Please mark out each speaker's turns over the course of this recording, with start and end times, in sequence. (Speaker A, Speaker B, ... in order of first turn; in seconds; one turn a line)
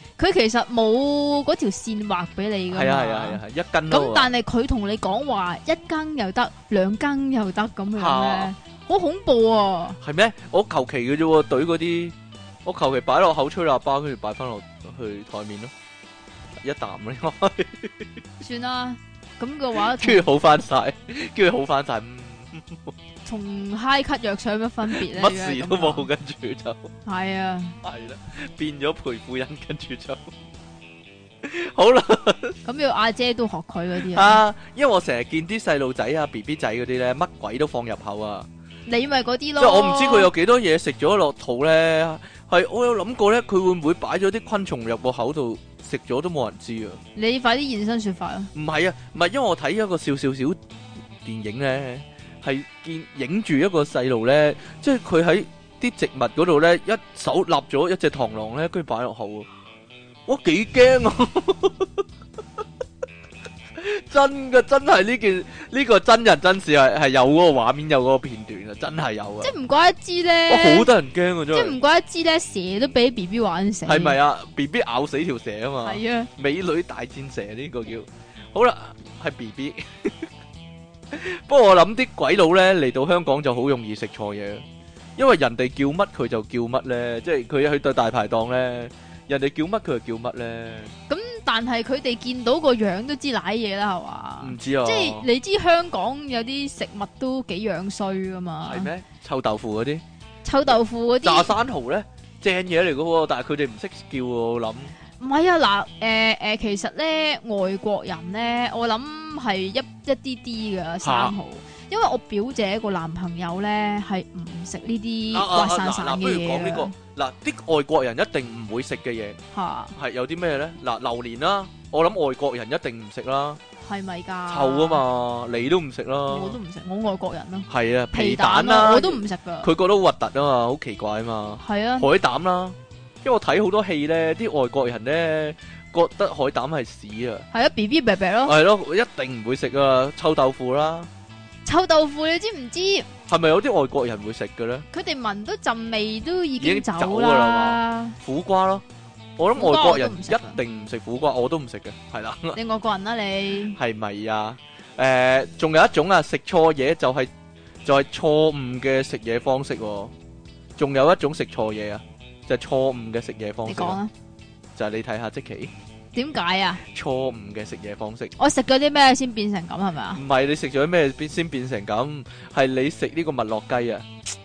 Speaker A: 0.2-10.0
Speaker B: 2.7-4.3
Speaker B: 7.9-8.5
Speaker B: 10.0-15.7
Speaker B: 16.6-18.1
Speaker A: 18.4-20.2
Speaker B: 19.8-22.9
Speaker A: 23.2-26.1
Speaker B: 24.9-26.9
Speaker A: 27.1-27.8
Speaker B: 27.8-30.3
Speaker B: 31.4-32.6
Speaker A: 32.6-34.4
Speaker B: 34.0-38.5
Speaker A: 38.9-40.3
Speaker B: 39.6-47.0
Speaker A: 47.1-48.5
Speaker B: 48.5-50.6
Speaker B: 51.2-59.5
Speaker B: 60.3-62.0
Speaker B: 63.8-69.5
Speaker A: 69.4-70.9
Speaker B: 70.5-71.8
Speaker A: 71.5-74.2
Speaker B: 73.9-80.3
Speaker A: 75.8-76.3
Speaker B: 81.1-84.6
Speaker B: 85.2-90.9
Speaker A: 91.1-98.9
Speaker B: 94.4-95.3
Speaker B: 98.7-100.0
Speaker A: 100.4-101.5
Speaker B: 100.7-104.9
Speaker A: 105.2-117.0
Speaker B: 111.0-111.3
Speaker B: 115.3-119.4
Speaker A: 119.5-119.9
Speaker B: 120.0-123.6
Speaker A: 123.8-125.0
Speaker B: 124.5-126.6
Speaker A: 126.3-129.7
Speaker B: 127.7-137.4
Speaker A: 131.6-132.1
Speaker A: 137.5-138.6
Speaker B: 138.4-141.1
Speaker A: 141.6-143.1
Speaker B: 143.3-144.9
Speaker A: 144.9-148.2
Speaker B: 146.6-148.8
Speaker B: 149.4-152.6
Speaker A: 149.6-150.6
Speaker A: 152.6-153.8
Speaker B: 153.7-157.3
Speaker B: 157.8-160.1
Speaker B: 160.8-164.0
Speaker A: 163.7-164.1
Speaker B: 164.8-165.7
Speaker A: 166.1-166.8
Speaker B: 166.8-168.3
Speaker A: 168.4-170.2
Speaker B: 170.1-174.1